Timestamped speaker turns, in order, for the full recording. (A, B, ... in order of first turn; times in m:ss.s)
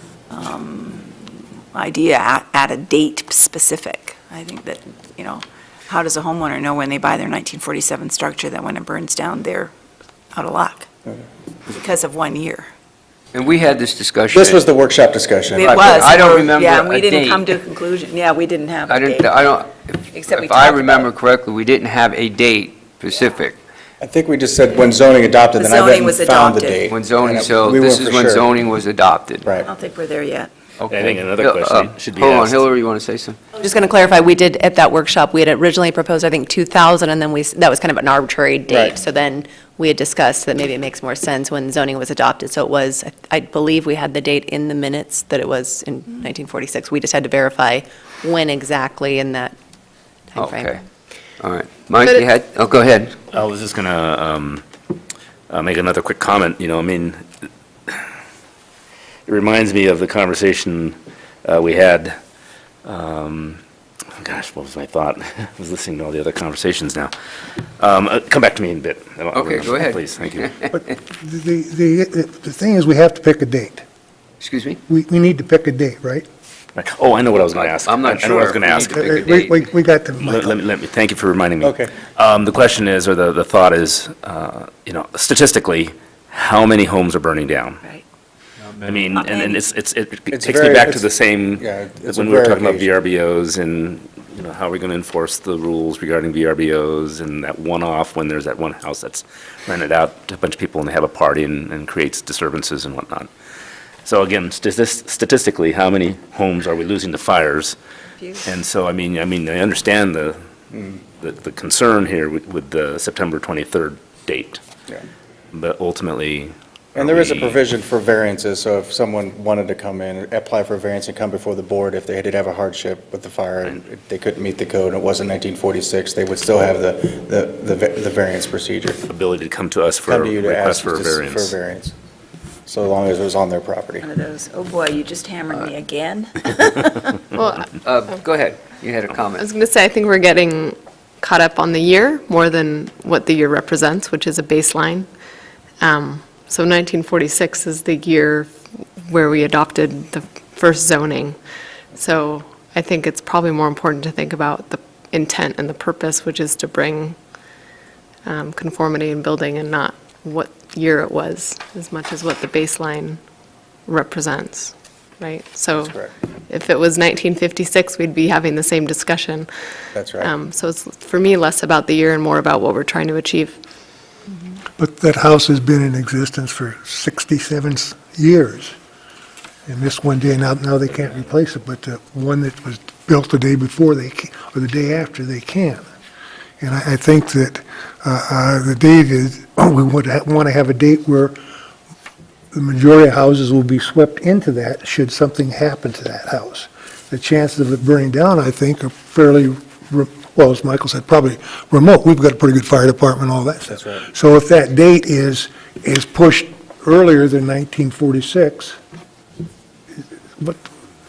0:00.3-0:01.1 A
0:01.7-0:09.7 A
0:10.3-0:10.9 A
0:11.7-0:12.7 A
0:13.3-0:14.6 B
0:14.3-0:16.1 C
0:15.5-0:19.4 A
0:15.6-0:17.6 B
0:18.9-0:23.6 B
0:20.1-0:21.1 A
0:24.0-0:28.5 C
0:25.5-0:26.8 A
0:26.9-0:29.5 B
0:29.6-0:30.5 A
0:30.8-0:33.4 B
0:30.9-0:32.6 D
0:33.6-0:49.5 E
0:50.3-0:50.8 E
0:50.4-0:50.8 B
0:51.4-0:53.2 B
0:53.3-0:54.6 D
0:55.5-0:57.2 D
0:59.3-1:02.2 D
1:02.8-1:03.6 D
1:04.2-1:07.1 D
1:07.8-1:10.5 D
1:09.3-1:10.7 B
1:11.1-1:13.8 F
1:14.4-1:14.8 B
1:14.9-1:16.2 F
1:16.7-1:18.9 D
1:17.6-1:19.6 B
1:18.9-1:20.5 F
1:20.2-1:27.8 D
1:21.6-1:21.9 C
1:28.8-1:43.3 D
1:30.3-1:32.9 C
1:44.0-1:47.8 D
1:48.4-1:50.4 D
1:50.7-1:51.0 C
1:51.2-1:54.6 D
1:55.5-1:57.6 D
1:57.0-2:09.0 C
2:09.0-2:11.5 D
2:10.1-2:11.9 C
2:12.6-2:14.1 C
2:14.0-2:17.3 A
2:17.4-2:17.7 G
2:17.8-2:19.5 B
2:19.4-2:25.1 G
2:25.8-2:31.4 G
2:31.9-2:37.2 G
2:38.2-2:43.2 G
2:43.8-2:46.0 G
2:45.7-2:46.1 C
2:46.5-2:49.5 G
2:49.9-2:50.3 C
2:50.2-2:53.6 G
2:54.8-2:58.7 F
2:59.7-3:05.8 F
3:06.6-3:11.4 F
3:12.5-3:28.8 F
3:23.7-3:24.0 C
3:30.4-3:30.6 F